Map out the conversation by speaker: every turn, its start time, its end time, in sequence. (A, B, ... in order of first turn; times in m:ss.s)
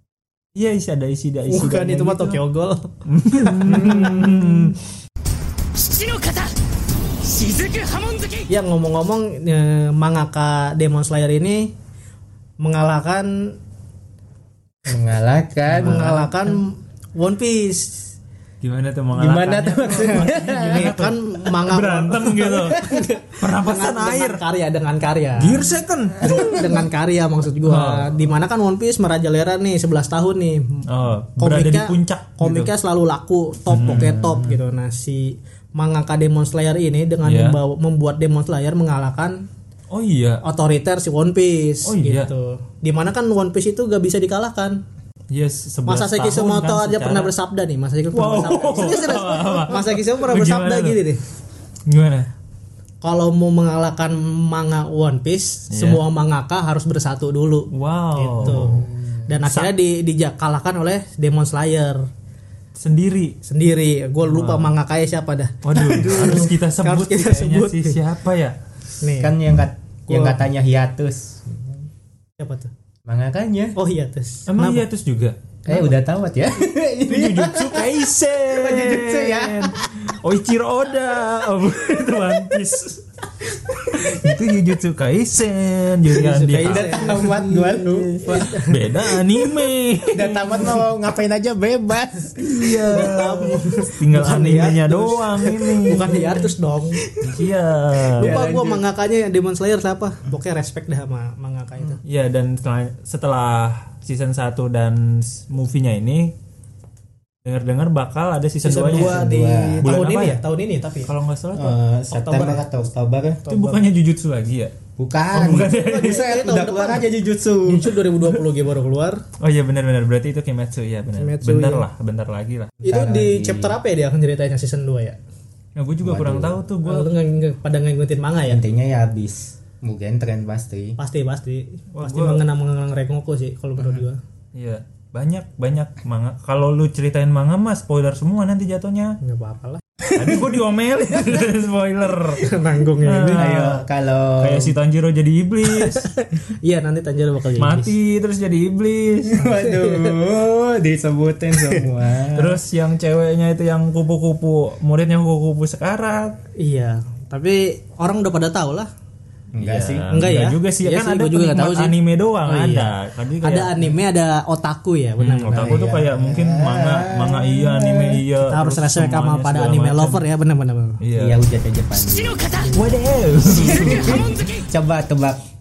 0:00.6-0:02.4 A
0:01.5-0:04.7 B
0:03.1-0:04.8 A
0:05.8-0:06.5 C
0:07.2-0:08.5 C
0:08.5-0:11.7 B
0:12.6-0:13.6 B
0:14.9-0:16.4 D
0:15.8-0:16.2 A
0:15.8-0:18.1 B
0:18.6-0:24.4 A
0:19.1-0:21.0 D
0:20.1-0:30.8 B
0:25.4-0:26.6 A
0:27.7-0:28.2 A
0:30.9-0:32.7 A
0:31.4-0:39.4 B
0:33.7-0:34.2 A
0:33.8-0:34.6 D
0:37.2-0:37.6 A
0:39.9-0:40.4 A
0:40.4-0:44.8 B
0:41.8-0:42.3 A
0:45.3-0:47.3 A
0:45.9-0:51.2 B
0:48.1-0:51.0 A
0:51.9-0:52.3 A
0:53.0-1:02.1 B
0:55.7-0:56.0 A
0:57.7-0:58.8 A
0:58.5-0:59.3 D
0:59.5-0:59.7 A
1:02.8-1:03.4 A
1:03.4-1:08.0 B
1:04.2-1:04.7 A
1:05.6-1:08.6 A
1:05.8-1:06.5 D
1:09.0-1:09.4 B
1:09.2-1:11.9 D
1:10.1-1:10.4 B
1:12.4-1:12.7 B
1:13.1-1:13.8 D
1:13.8-1:14.8 B
1:14.5-1:15.4 A
1:15.6-1:19.8 D
1:17.1-1:23.0 A
1:23.9-1:27.2 A
1:26.1-1:28.8 B
1:26.6-1:28.5 D
1:28.3-1:30.8 A
1:30.1-1:32.4 D
1:32.4-1:36.5 A
1:32.6-1:37.2 B
1:37.2-1:38.4 A
1:38.2-1:38.9 D
1:38.2-1:42.0 B
1:42.0-1:46.3 A
1:47.4-1:50.4 A
1:48.6-1:51.1 B
1:48.9-1:49.9 D
1:51.0-1:51.8 A
1:51.6-1:53.5 D
1:52.1-1:52.6 B
1:53.5-1:53.8 B
1:53.5-1:54.8 A
1:55.0-1:58.0 D
1:55.3-1:56.2 A
1:55.5-1:57.0 B
1:57.6-1:59.2 B
1:59.4-2:02.7 A
2:01.2-2:01.8 B
2:02.8-2:03.8 D
2:02.8-2:05.2 B
2:05.8-2:07.1 A
2:06.0-2:06.6 D
2:06.8-2:08.6 B
2:08.4-2:11.0 D
2:11.0-2:14.2 B
2:11.9-2:12.4 A
2:14.5-2:19.2 A
2:19.2-2:19.8 B
2:20.1-2:22.5 A
2:22.4-2:23.6 B
2:23.0-2:23.8 A
2:23.4-2:24.8 D
2:24.4-2:26.1 A
2:25.7-2:27.9 B
2:27.6-2:29.5 A
2:29.3-2:32.6 D
2:29.6-2:30.2 B
2:32.3-2:36.4 A
2:36.6-2:38.9 B
2:39.5-2:40.0 D
2:39.6-2:43.7 A
2:40.1-2:45.8 B
2:45.2-2:50.2 A
2:45.5-2:48.2 D
2:48.5-2:51.0 B
2:51.0-2:51.4 A
2:51.1-2:52.4 D
2:52.0-2:52.9 C
2:52.7-2:54.4 A
2:53.4-2:54.7 C
2:53.5-2:55.4 D